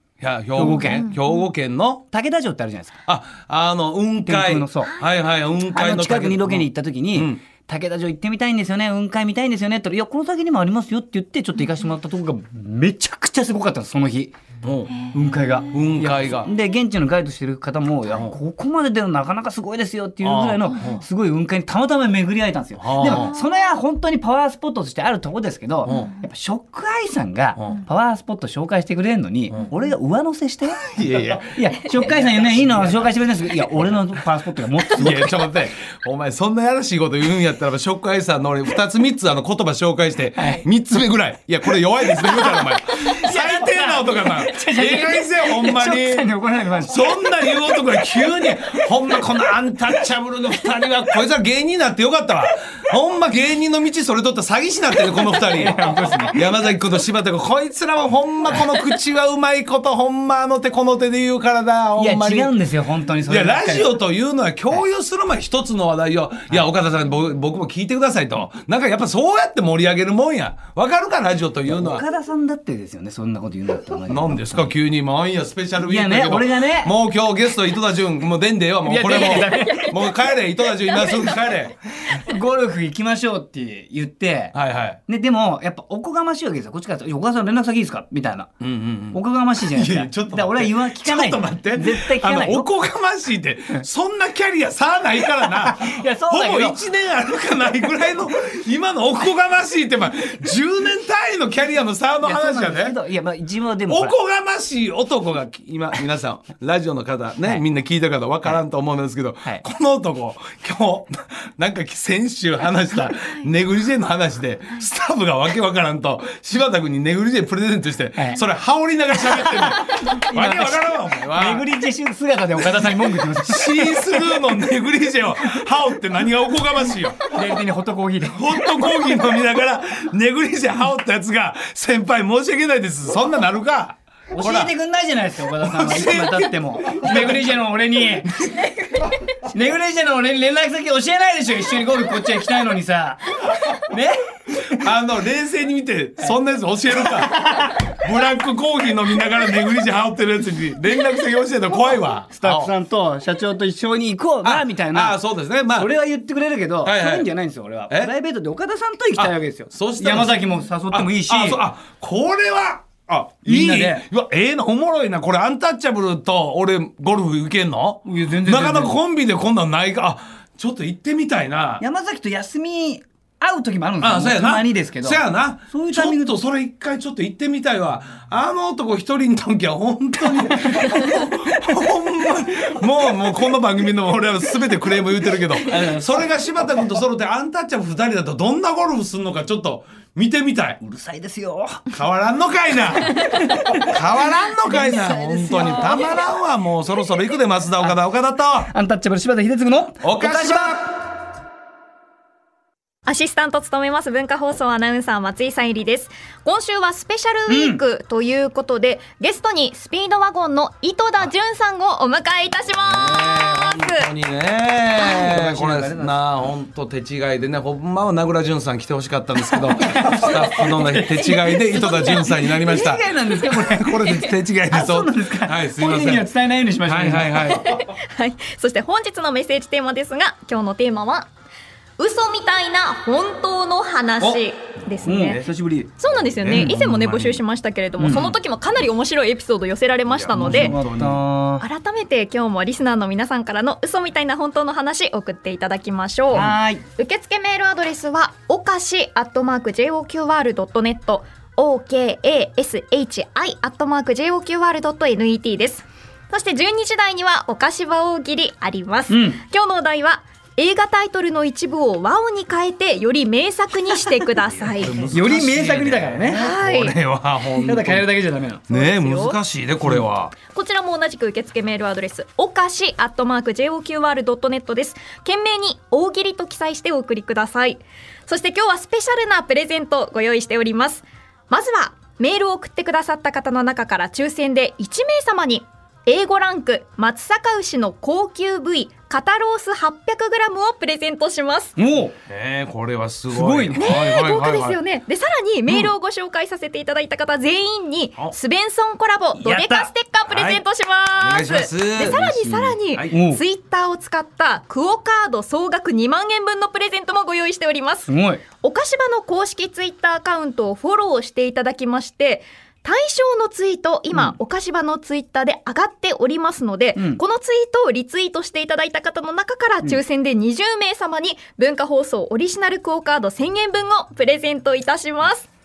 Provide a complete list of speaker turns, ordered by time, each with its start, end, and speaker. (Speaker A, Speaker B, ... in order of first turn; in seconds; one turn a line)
Speaker A: 0.2-2.0
Speaker B: 0.6-1.2
Speaker C: 0.7-1.4
Speaker B: 2.1-3.0
Speaker A: 3.0-7.4
Speaker B: 4.2-5.0
Speaker B: 5.7-14.3
Speaker A: 14.6-15.1
Speaker C: 15.0-15.8
Speaker B: 15.1-35.4
Speaker A: 15.7-16.5
Speaker A: 20.2-21.0
Speaker A: 22.8-23.3
Speaker C: 23.0-23.4
Speaker C: 25.9-26.3
Speaker A: 27.6-27.8
Speaker A: 30.8-33.1
Speaker A: 33.6-34.0
Speaker A: 34.9-62.5
Speaker B: 40.4-40.6
Speaker B: 42.2-47.1
Speaker B: 55.5-56.5
Speaker B: 62.0-64.0
Speaker A: 63.3-72.0
Speaker B: 71.7-74.7
Speaker A: 74.1-82.2
Speaker B: 75.8-76.9
Speaker B: 78.8-80.0
Speaker B: 82.1-84.6
Speaker A: 84.5-85.0
Speaker B: 85.1-88.5
Speaker A: 88.6-103.0
Speaker B: 89.1-92.7
Speaker B: 95.4-96.8
Speaker B: 102.2-104.2
Speaker A: 103.9-121.7
Speaker C: 113.1-113.5
Speaker B: 118.2-118.4
Speaker B: 119.2-124.5
Speaker A: 122.6-127.4
Speaker B: 127.3-128.9
Speaker A: 128.3-134.7
Speaker B: 134.3-138.3
Speaker A: 135.6-137.5
Speaker B: 139.0-144.9
Speaker A: 144.8-152.7
Speaker B: 147.1-147.9
Speaker B: 152.3-155.2
Speaker A: 154.4-155.9
Speaker B: 155.7-161.6
Speaker A: 156.8-157.3
Speaker A: 159.2-171.8
Speaker B: 163.5-164.1
Speaker B: 168.1-169.0
Speaker B: 171.8-176.4
Speaker A: 174.0-190.8
Speaker B: 180.3-180.9
Speaker B: 190.8-191.9
Speaker A: 191.9-198.7
Speaker B: 193.4-193.8
Speaker B: 194.6-196.3
Speaker B: 198.6-200.8
Speaker A: 200.0-200.9
Speaker C: 203.1-214.1
Speaker B: 207.5-207.8
Speaker A: 212.8-226.3
Speaker B: 215.0-216.2
Speaker B: 219.5-227.5
Speaker C: 221.8-222.2
Speaker A: 226.8-227.7
Speaker C: 227.4-231.3
Speaker C: 232.0-235.4
Speaker B: 235.1-235.9
Speaker C: 236.0-240.8
Speaker A: 236.4-237.4
Speaker B: 238.0-238.4
Speaker A: 240.1-241.2
Speaker B: 240.3-241.7
Speaker C: 241.6-265.1
Speaker B: 246.3-246.8
Speaker B: 259.1-259.4
Speaker A: 264.4-268.1
Speaker B: 265.1-266.5
Speaker C: 266.3-266.9
Speaker B: 267.5-268.6
Speaker C: 268.7-269.4
Speaker A: 268.7-270.3
Speaker C: 270.5-291.8
Speaker B: 291.8-292.1
Speaker A: 292.3-294.8
Speaker B: 293.3-293.9
Speaker C: 293.8-325.5
Speaker B: 299.4-299.9
Speaker A: 300.3-300.6
Speaker A: 301.2-303.1
Speaker B: 302.0-303.4
Speaker B: 308.1-308.4
Speaker B: 317.0-317.2